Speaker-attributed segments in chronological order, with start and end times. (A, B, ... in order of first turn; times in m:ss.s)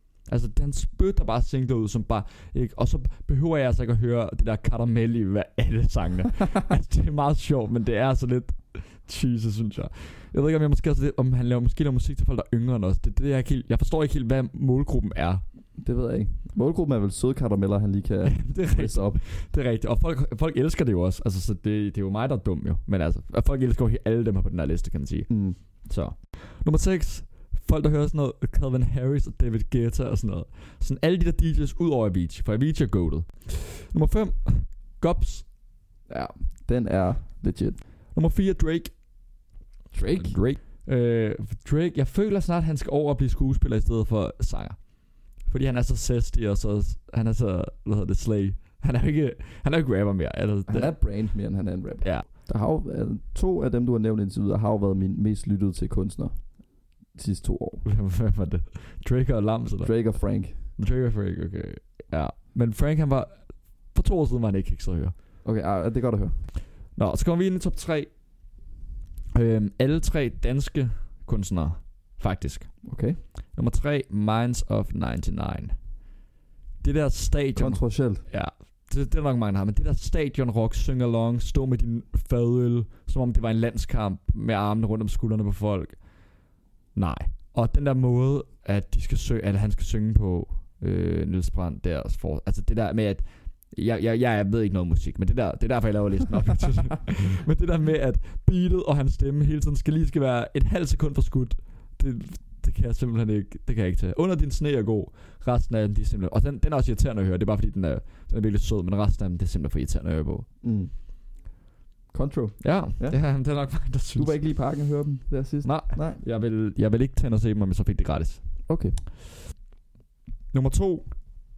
0:00.2-0:15.4 A
0:15.8-0:19.2 B
0:18.2-0:35.5 A
0:25.3-0:25.6 B
0:36.1-0:37.8 B
0:38.1-0:39.0 A
0:39.9-0:40.4 B
0:40.1-0:51.4 A
0:50.7-0:57.8 B
0:57.8-1:05.1 A
0:59.8-1:00.6 B
1:05.4-1:06.4 B
1:06.9-1:08.1 A
1:09.3-1:12.8 A
1:12.8-1:13.2 B
1:13.5-1:15.8 A
1:16.8-1:26.2 A
1:17.6-1:18.2 B
1:26.9-1:50.5 A
1:50.6-1:50.9 B
1:52.1-1:56.2 B
1:52.6-1:54.4 A
1:55.6-1:58.4 A
1:58.7-1:58.9 B
2:00.5-2:01.1 A